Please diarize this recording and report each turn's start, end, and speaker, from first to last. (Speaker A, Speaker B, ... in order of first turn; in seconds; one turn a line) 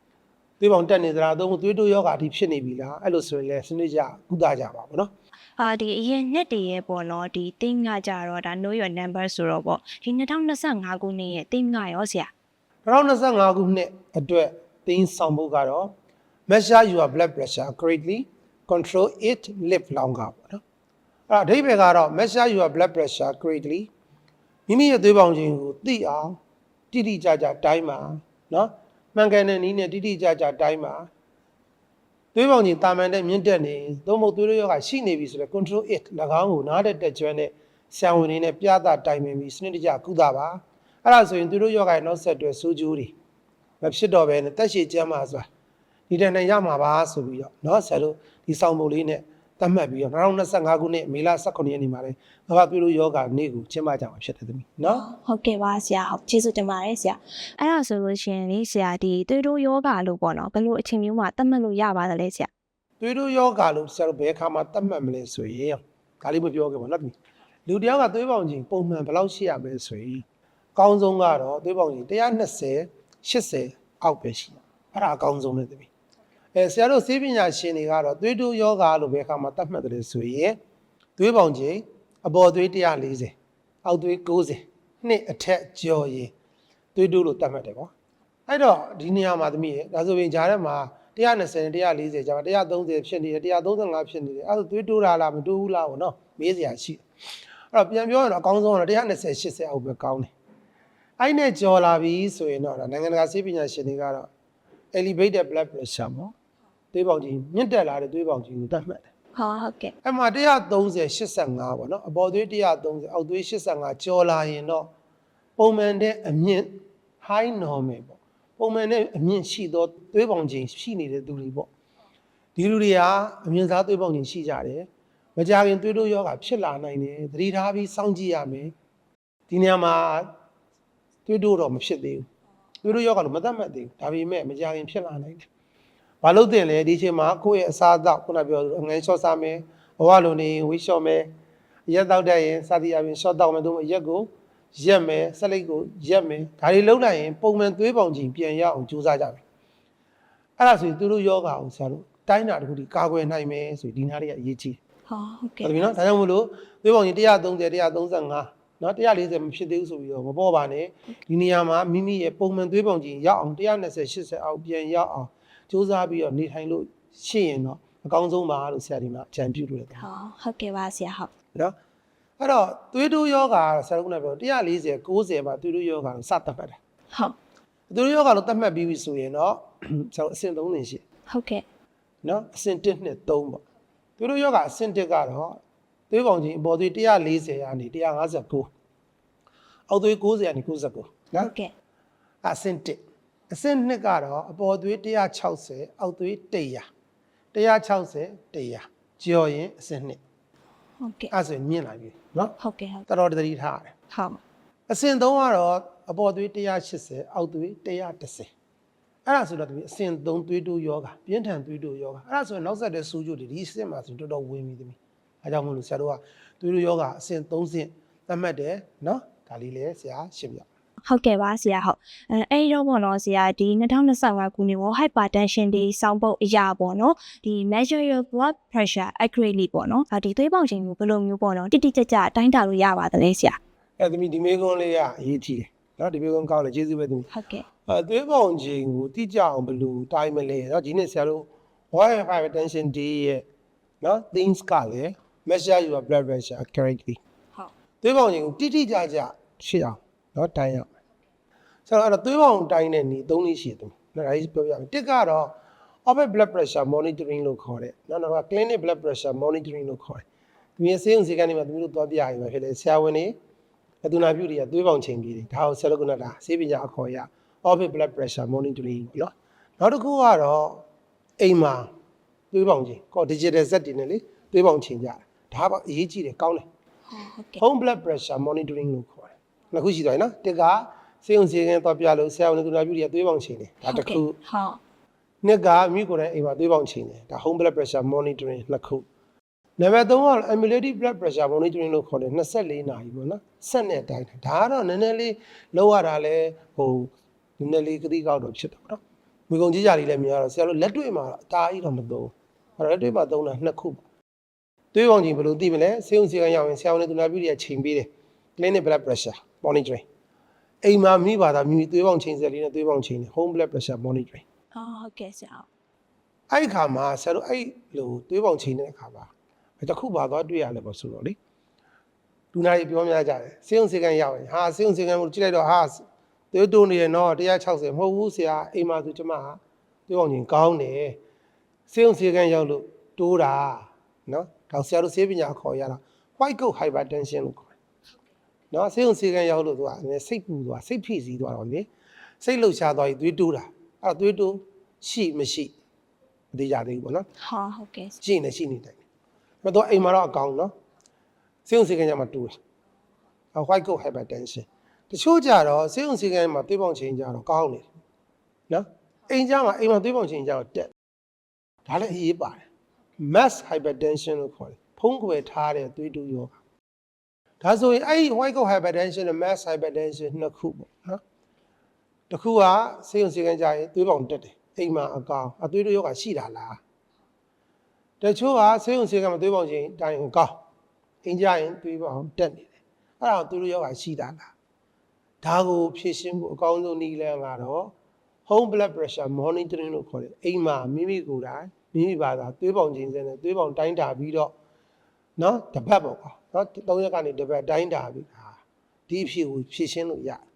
Speaker A: 0.6-5.1
Speaker B: 5.6-12.3
Speaker A: 12.8-15.9
Speaker A: 16.5-20.6
Speaker A: 21.3-23.9
Speaker A: 24.7-26.4
Speaker A: 26.9-31.1
Speaker A: 32.3-43.1
Speaker A: 43.8-45.5
Speaker A: 46.1-55.0
Speaker B: 54.9-62.5
Speaker A: 63.0-67.1
Speaker A: 67.7-70.2
Speaker A: 70.8-75.9
Speaker A: 76.5-80.6
Speaker A: 81.2-86.3
Speaker A: 86.9-87.9
Speaker A: 88.5-97.0
Speaker A: 97.7-100.3
Speaker A: 101.2-104.3
Speaker A: 104.9-106.3
Speaker A: 106.9-109.1
Speaker B: 109.3-109.9
Speaker A: 110.0-114.9
Speaker A: 115.6-121.7
Speaker A: 122.5-128.7
Speaker A: 129.5-130.3
Speaker A: 131.2-132.3
Speaker A: 132.8-135.5
Speaker A: 136.2-141.3
Speaker A: 141.9-149.4
Speaker A: 150.6-154.8
Speaker B: 155.1-155.7
Speaker A: 155.6-170.1
Speaker B: 170.0-171.3
Speaker A: 172.4-176.8
Speaker A: 177.9-181.0
Speaker B: 181.3-181.6
Speaker A: 182.2-183.6
Speaker A: 184.2-188.7
Speaker A: 189.9-191.5
Speaker B: 191.4-191.7
Speaker A: 192.4-196.8
Speaker A: 197.5-200.2
Speaker B: 201.0-201.3
Speaker A: 201.3-202.5
Speaker B: 202.6-203.1
Speaker A: 203.1-203.9
Speaker B: 204.1-204.4
Speaker A: 204.9-208.5
Speaker A: 209.2-220.7
Speaker B: 221.1-233.6
Speaker A: 234.0-237.3
Speaker B: 237.3-237.7
Speaker A: 237.8-243.4
Speaker A: 244.0-247.2
Speaker A: 248.0-250.9
Speaker A: 251.9-255.5
Speaker A: 256.1-260.2
Speaker A: 260.8-263.3
Speaker A: 264.0-270.8
Speaker A: 271.4-271.9
Speaker A: 272.5-276.6
Speaker B: 277.1-277.6
Speaker A: 277.6-284.4
Speaker B: 283.8-284.8
Speaker A: 285.4-289.0
Speaker A: 289.8-304.0
Speaker A: 304.9-310.0
Speaker A: 310.8-314.4
Speaker B: 314.7-315.7
Speaker A: 316.5-321.4
Speaker A: 322.5-331.2
Speaker A: 331.9-337.7
Speaker A: 338.7-341.9
Speaker A: 342.4-345.7
Speaker A: 346.5-347.3
Speaker B: 347.4-348.2
Speaker A: 348.2-349.0
Speaker A: 349.6-350.7
Speaker A: 351.6-352.6
Speaker A: 353.5-357.9
Speaker A: 358.7-360.9
Speaker A: 361.8-362.7
Speaker A: 363.2-366.6
Speaker A: 367.6-371.2
Speaker A: 372.3-376.8
Speaker A: 378.2-380.6
Speaker A: 381.2-384.5
Speaker A: 385.4-387.9
Speaker A: 388.5-394.5
Speaker A: 395.4-400.4